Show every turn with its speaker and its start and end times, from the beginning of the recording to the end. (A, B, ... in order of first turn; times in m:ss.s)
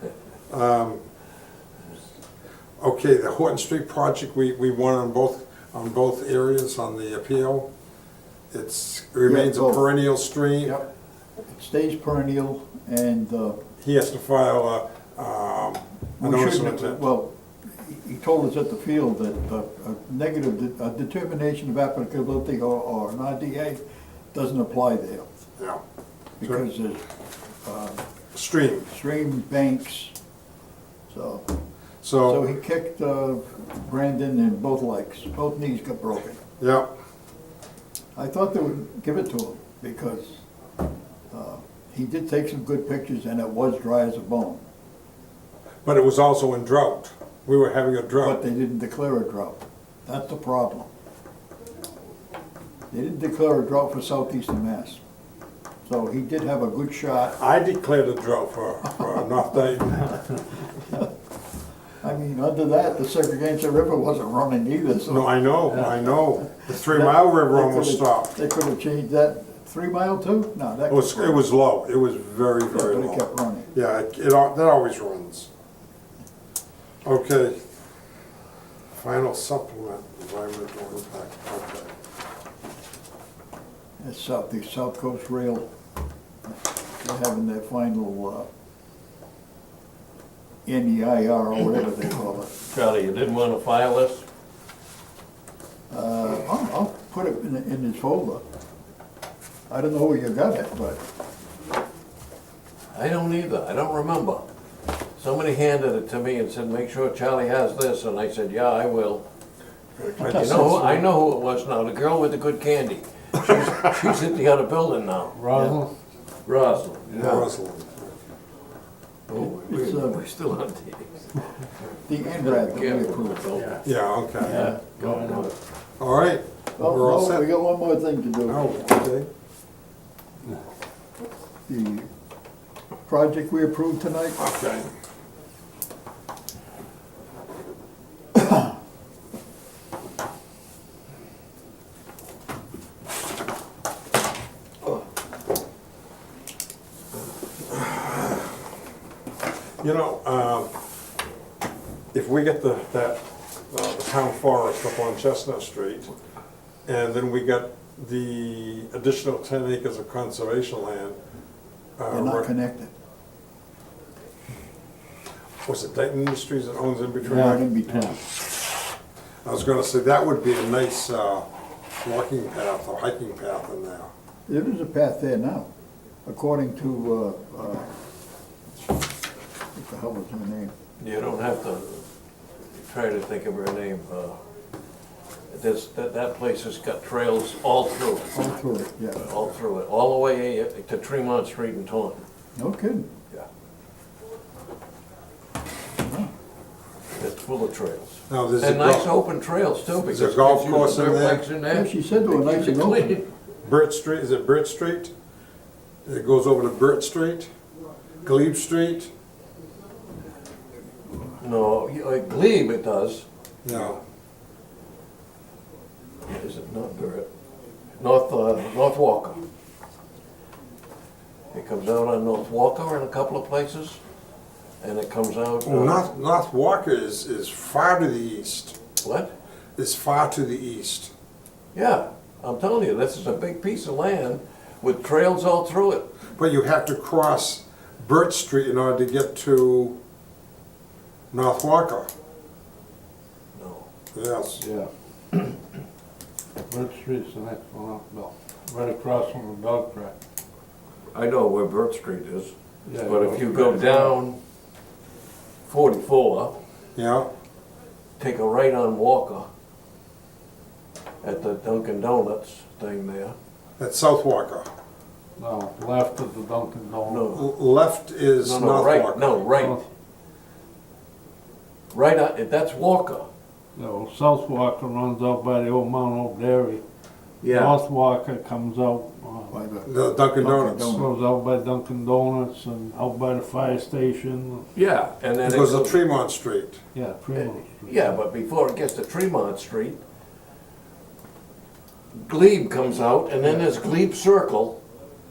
0:00.5-0:01.0 A
0:02.8-0:07.7 A
0:08.5-0:10.8 A
0:09.2-0:09.9 B
0:11.5-0:13.6 B
0:13.8-0:17.0 A
0:16.2-0:23.8 B
0:24.3-0:25.2 B
0:26.4-0:27.0 B
0:27.6-0:28.0 B
0:28.3-0:28.9 A
0:28.9-0:30.1 B
0:31.1-0:31.4 B
0:32.0-0:32.4 A
0:32.2-0:36.4 B
0:36.6-0:36.9 A
0:38.1-0:40.4 B
0:41.3-0:44.6 B
0:45.8-0:48.4 A
0:48.2-0:50.9 B
0:52.9-0:55.0 B
0:55.8-0:57.4 B
0:57.4-1:00.3 A
1:02.0-1:05.3 B
1:05.0-1:08.3 A
1:06.5-1:11.5 B
1:10.9-1:15.5 A
1:12.7-1:13.7 B
1:17.0-1:17.6 A
1:18.9-1:21.9 A
1:24.0-1:25.7 B
1:26.5-1:28.5 B
1:30.6-1:32.5 B
1:32.7-1:34.2 C
1:35.9-1:38.4 B
1:39.7-1:41.0 B
1:42.9-1:44.5 C
1:45.2-1:49.2 C
1:50.0-1:51.0 A
1:50.2-1:50.9 B
1:50.2-1:55.8 C
1:55.3-1:55.9 D
1:56.4-1:57.5 C
1:57.1-1:58.1 A
1:59.3-2:01.4 C
1:59.3-2:00.2 B
2:02.1-2:03.5 B
2:02.3-2:03.8 C
2:03.6-2:03.8 D
2:03.8-2:04.7 A
2:04.4-2:05.5 C
2:04.5-2:05.5 D
2:06.0-2:07.5 A
2:06.8-2:08.7 B
2:08.5-2:09.3 A
2:11.7-2:12.1 B
2:13.0-2:14.4 B
2:14.4-2:14.9 A
2:27.6-2:28.6 A
2:29.8-2:30.7 A
2:32.1-2:36.1 A
2:36.8-2:41.2 A
2:42.0-2:42.5 A
2:42.1-2:42.9 B
2:45.6-2:47.6 A
2:47.2-2:48.2 B
2:47.2-2:48.2 D
2:49.4-2:51.4 A
2:52.0-2:54.1 A
2:54.5-2:55.7 B
2:56.2-2:57.9 B
2:59.7-3:00.7 B
3:01.0-3:02.0 C
3:02.7-3:04.4 C
3:05.5-3:08.4 C
3:08.3-3:09.2 B
3:09.1-3:12.2 C
3:12.6-3:13.0 B
3:16.0-3:16.3 B
3:17.2-3:23.3 C
3:18.3-3:19.1 A
3:20.0-3:21.4 A
3:21.7-3:23.1 B
3:23.6-3:25.1 A
3:26.0-3:27.5 A
3:28.2-3:29.1 A
3:31.4-3:33.9 C
3:33.6-3:34.0 A
3:36.3-3:37.3 C
3:38.0-3:39.4 C
3:41.5-3:44.0 C
3:44.8-3:46.1 C
3:45.6-3:48.8 A
3:49.0-3:49.3 C
3:49.8-3:51.1 A
3:51.7-3:56.1 C
3:56.4-4:00.0 A
4:01.3-4:02.1 A
4:03.5-4:03.9 C
4:04.1-4:04.6 A
4:04.6-4:04.9 D
4:06.7-4:10.1 D
4:11.1-4:14.4 C
4:12.8-4:14.1 D
4:15.6-4:16.6 C
4:17.0-4:17.3 A
4:18.2-4:19.5 C
4:21.2-4:23.3 C
4:23.8-4:24.7 A
4:25.4-4:27.2 D
4:27.1-4:27.4 C
4:27.3-4:29.4 A
4:28.4-4:29.8 C
4:29.6-4:29.8 D
4:31.9-4:33.3 C
4:33.8-4:36.8 D
4:37.4-4:37.8 C
4:37.4-4:39.5 D
4:39.5-4:41.1 B
4:39.8-4:41.0 A
4:40.8-4:44.7 D
4:44.7-4:46.0 C
4:45.4-4:46.8 A
4:46.9-4:48.2 D
4:47.3-4:50.0 C
4:52.1-4:54.8 C